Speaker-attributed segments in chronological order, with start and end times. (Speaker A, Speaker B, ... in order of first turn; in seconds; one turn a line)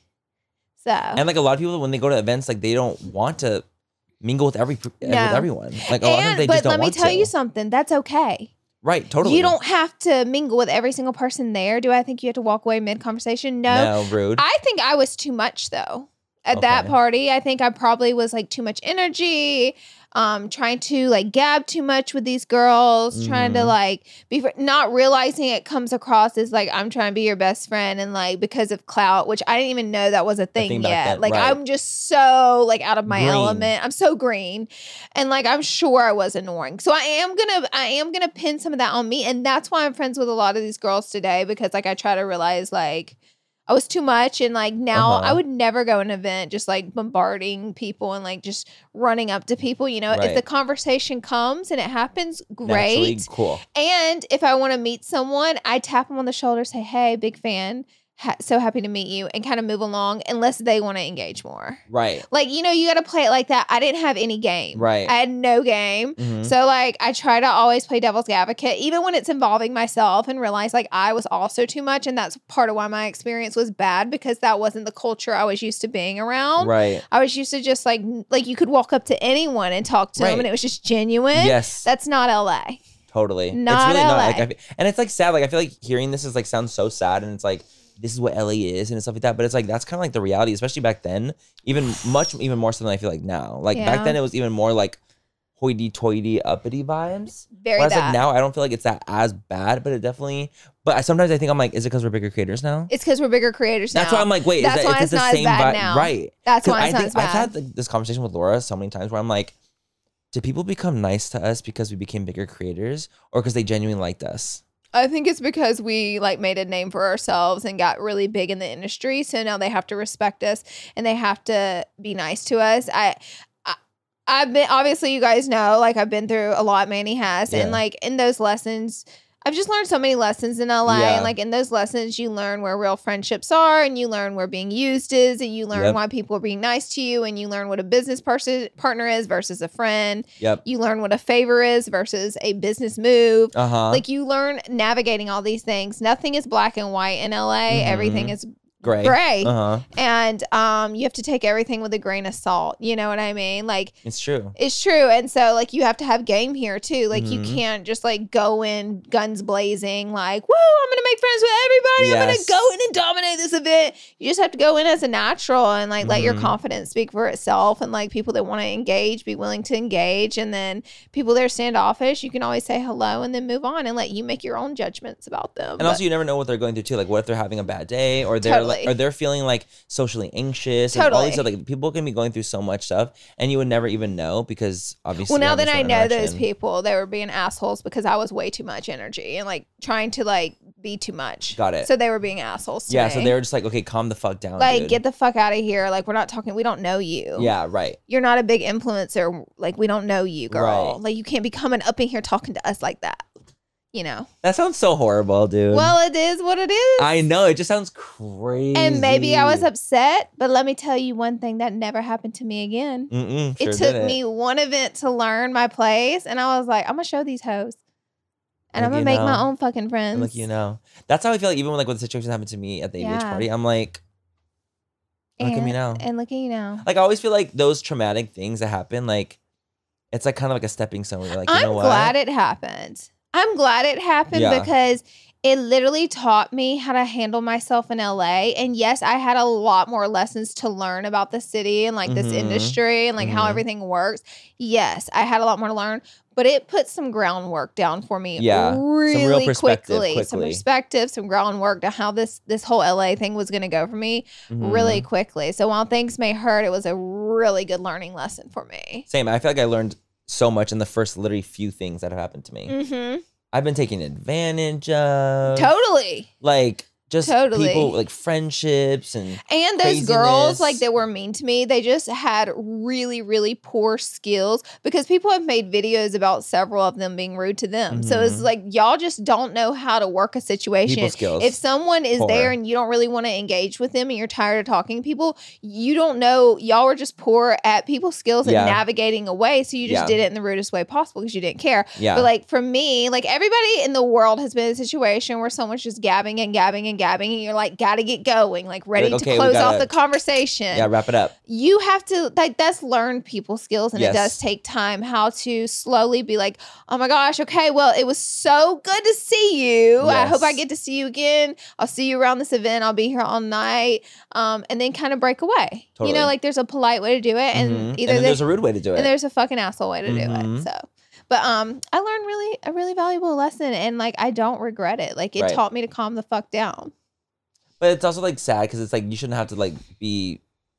Speaker A: 0.8-1.2
Speaker B: 1.1-3.6
Speaker B: 4.2-7.3
Speaker A: 5.0-8.5
Speaker B: 8.8-9.6
Speaker A: 9.2-43.1
Speaker B: 13.7-14.4
Speaker B: 16.5-16.9
Speaker B: 23.1-23.8
Speaker B: 30.6-31.6
Speaker B: 33.1-33.7
Speaker A: 43.7-82.8
Speaker B: 44.9-45.4
Speaker B: 50.1-50.4
Speaker B: 52.6-53.6
Speaker B: 61.9-62.2
Speaker B: 64.7-65.1
Speaker B: 66.2-66.5
Speaker B: 76.6-77.0
Speaker B: 80.2-80.5
Speaker B: 81.3-81.9
Speaker B: 83.1-95.0
Speaker A: 83.5-84.5
Speaker A: 93.7-94.2
Speaker B: 95.6-102.9
Speaker A: 97.5-98.2
Speaker A: 102.9-107.5
Speaker B: 103.9-109.5
Speaker B: 110.3-114.6
Speaker A: 114.9-123.8
Speaker A: 124.3-153.9
Speaker B: 127.5-127.8
Speaker B: 130.9-131.3
Speaker B: 135.7-136.0
Speaker B: 143.5-144.0
Speaker B: 147.7-149.8
Speaker B: 154.0-154.6
Speaker A: 154.6-176.0
Speaker B: 157.1-157.6
Speaker B: 162.0-162.6
Speaker B: 166.0-166.6
Speaker B: 175.8-186.4
Speaker A: 178.4-178.9
Speaker A: 180.9-181.4
Speaker A: 185.3-193.3
Speaker B: 191.6-191.9
Speaker B: 192.9-195.0
Speaker A: 194.6-197.5
Speaker B: 197.4-198.0
Speaker A: 198.1-203.2
Speaker B: 200.5-201.0
Speaker A: 203.9-204.3
Speaker B: 204.4-205.9
Speaker A: 205.7-207.1
Speaker B: 207.0-209.7
Speaker A: 208.7-217.8
Speaker B: 213.1-214.2
Speaker A: 218.7-220.4
Speaker B: 218.8-219.5
Speaker B: 220.1-224.0
Speaker A: 223.0-223.5
Speaker A: 225.4-226.8
Speaker B: 225.4-226.1
Speaker B: 226.8-229.4
Speaker B: 230.1-232.1
Speaker A: 231.4-259.1
Speaker B: 234.3-234.7
Speaker B: 242.1-243.6
Speaker B: 248.4-250.6
Speaker B: 254.5-255.1
Speaker B: 259.1-262.7
Speaker A: 262.7-263.2
Speaker B: 263.5-265.7
Speaker A: 265.5-266.3
Speaker B: 266.4-270.8
Speaker A: 267.2-267.9
Speaker A: 269.5-300.9
Speaker B: 277.9-278.5
Speaker B: 280.9-281.6
Speaker B: 282.1-282.6
Speaker B: 288.4-288.8
Speaker B: 289.9-290.2
Speaker B: 292.0-292.3
Speaker B: 298.9-299.9
Speaker B: 300.7-301.3
Speaker A: 301.5-318.4
Speaker B: 303.9-304.4
Speaker B: 310.0-310.6
Speaker B: 316.0-316.3
Speaker B: 317.5-319.1
Speaker A: 318.9-326.9
Speaker B: 320.1-320.7
Speaker B: 327.8-330.4